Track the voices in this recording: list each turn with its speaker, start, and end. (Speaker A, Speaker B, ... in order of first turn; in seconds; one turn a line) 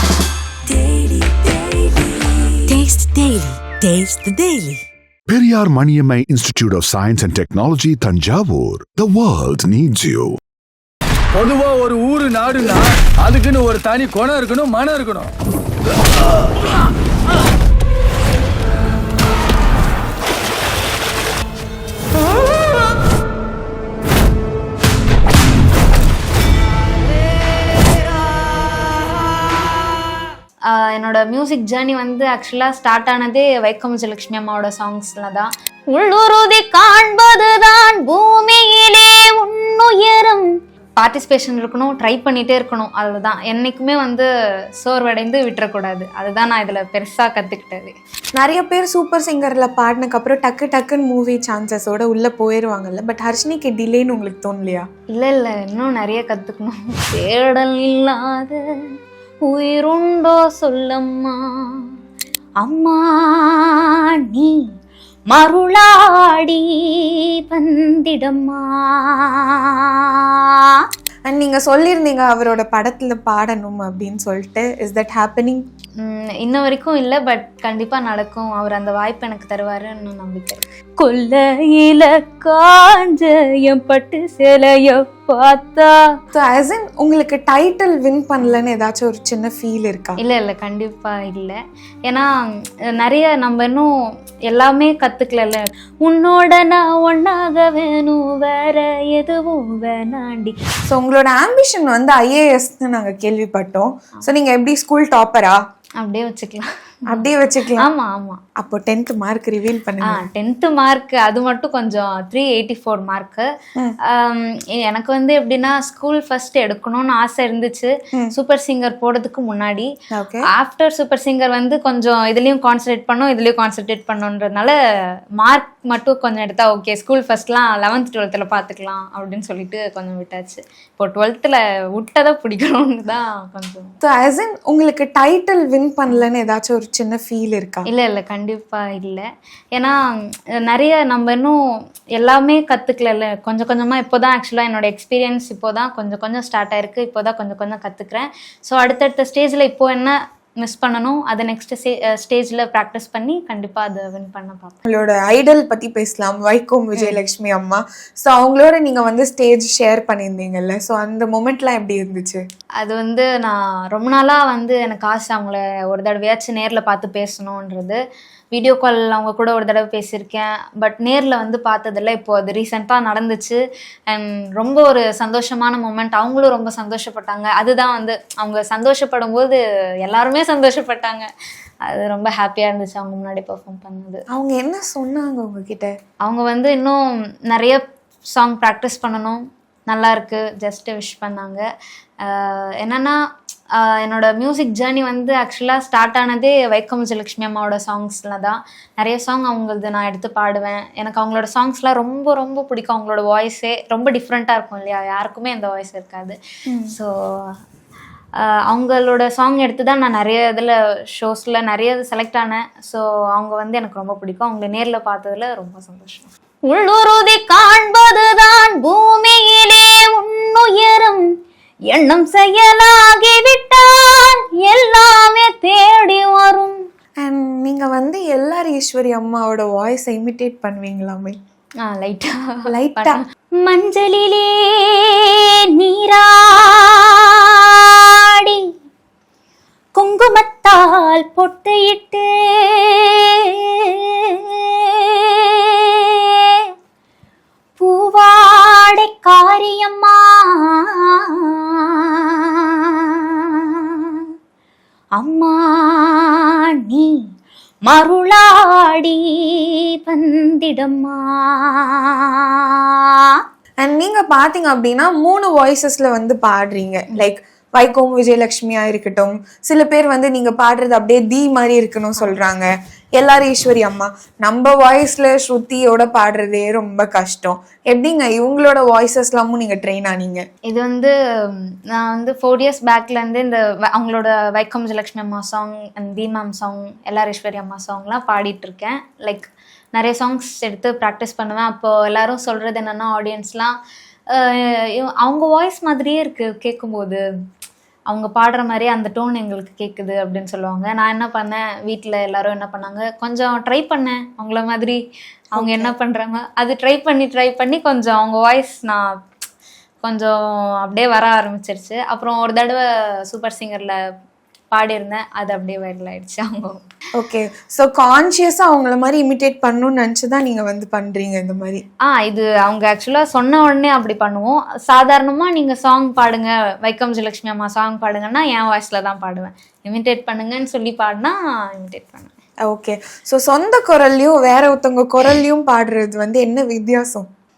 Speaker A: 0.7-2.1
Speaker A: 2.6-4.8
Speaker B: 5.3-10.4
Speaker C: 11.4-15.3
Speaker D: 30.6-44.3
Speaker D: 44.8-47.9
Speaker E: 48.4-54.9
Speaker D: 55.1-58.6
Speaker D: 59.5-61.9
Speaker D: 62.6-64.6
Speaker D: 65.3-70.8
Speaker E: 71.3-75.6
Speaker D: 76.0-86.0
Speaker E: 86.3-90.2
Speaker D: 90.2-91.6
Speaker D: 93.0-93.9
Speaker D: 94.5-100.5
Speaker E: 100.9-105.6
Speaker D: 106.0-108.4
Speaker E: 107.1-107.9
Speaker E: 108.6-110.2
Speaker D: 110.0-113.5
Speaker D: 114.0-119.9
Speaker E: 120.1-120.5
Speaker D: 120.5-124.7
Speaker D: 125.4-133.9
Speaker E: 134.0-137.8
Speaker D: 137.9-139.9
Speaker D: 140.6-141.6
Speaker D: 142.2-154.8
Speaker E: 154.8-162.4
Speaker D: 162.8-168.0
Speaker D: 168.5-173.6
Speaker D: 174.1-181.3
Speaker D: 181.8-184.2
Speaker E: 184.3-185.9
Speaker D: 186.2-187.8
Speaker D: 188.3-191.6
Speaker D: 192.2-193.2
Speaker D: 193.7-206.3
Speaker E: 206.7-206.9
Speaker D: 206.9-207.5
Speaker D: 208.4-221.2
Speaker D: 221.9-226.8
Speaker E: 227.2-231.4
Speaker D: 231.8-238.7
Speaker E: 232.7-233.2
Speaker D: 239.9-246.7
Speaker D: 247.8-254.2
Speaker D: 255.2-257.1
Speaker D: 257.9-263.4
Speaker E: 263.8-280.4
Speaker D: 280.7-293.7
Speaker D: 294.3-297.2
Speaker D: 298.1-305.0
Speaker E: 305.5-305.9
Speaker D: 305.6-309.1
Speaker D: 310.0-314.0
Speaker D: 314.7-316.8
Speaker E: 317.1-321.8
Speaker D: 322.0-332.3
Speaker E: 332.6-337.3